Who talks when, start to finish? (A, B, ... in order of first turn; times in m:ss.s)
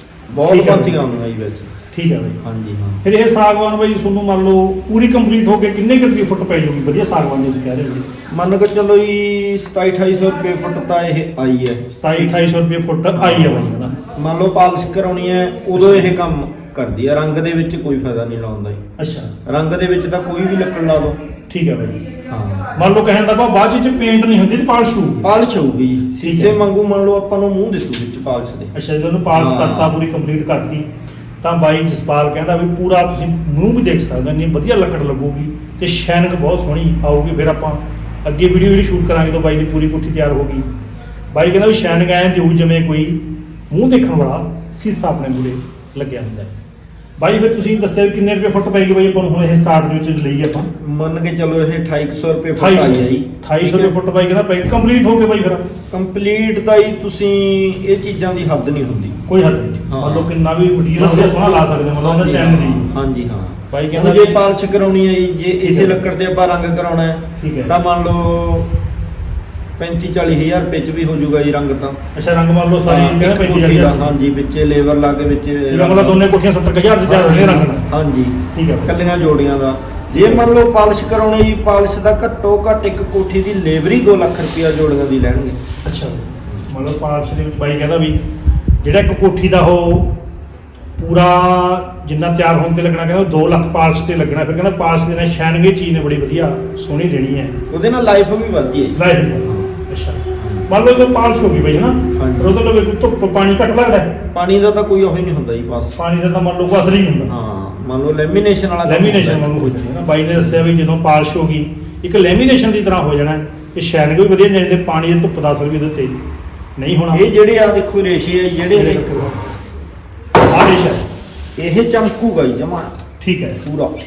0:00.3-0:01.7 A
0:00.5-0:01.0 B
0:01.9-0:02.4 B
0:02.4-0:03.0 A
0:03.0-0:08.1 B
0:08.3-0:12.3 A
0:11.9-0:14.0 B
0:13.2-0:18.8 A
0:15.8-0:16.1 B
0:19.0-0:19.3 B
0:19.5-0:21.2 A
0:21.5-0:22.0 B
0:22.3-0:22.7 A
0:22.8-0:25.3 B
0:25.2-0:28.7 A
0:26.2-0:26.6 B
0:28.7-0:30.8 B
0:29.3-0:30.0 A
0:31.4-0:40.7 B
0:41.3-0:46.5 B
0:47.2-0:50.7 B
0:50.8-0:53.9 A
0:52.6-0:55.7 B
0:55.9-0:59.2 A
0:59.3-1:02.9 B
0:59.9-1:00.3 A
1:01.0-1:08.7 A
1:03.7-1:04.4 B
1:05.6-1:06.0 B
1:07.4-1:07.7 B
1:09.8-1:12.0 A
1:12.1-1:14.0 B
1:12.9-1:16.2 A
1:15.7-1:17.9 B
1:17.0-1:25.6 A
1:18.5-1:18.9 B
1:20.2-1:20.5 B
1:25.8-1:28.2 B
1:28.8-1:30.2 B
1:31.0-1:37.6 B
1:37.7-1:39.7 A
1:39.0-1:44.2 B
1:40.4-1:40.7 A
1:42.2-1:42.6 A
1:44.3-1:46.0 A
1:46.0-1:47.3 B
1:47.3-1:49.7 A
1:48.8-1:56.2 B
1:56.8-1:57.2 B
1:57.1-1:59.0 A
1:58.7-1:59.5 B
2:00.5-2:01.1 B
2:01.6-2:03.0 A
2:03.2-2:03.6 B
2:03.6-2:04.0 A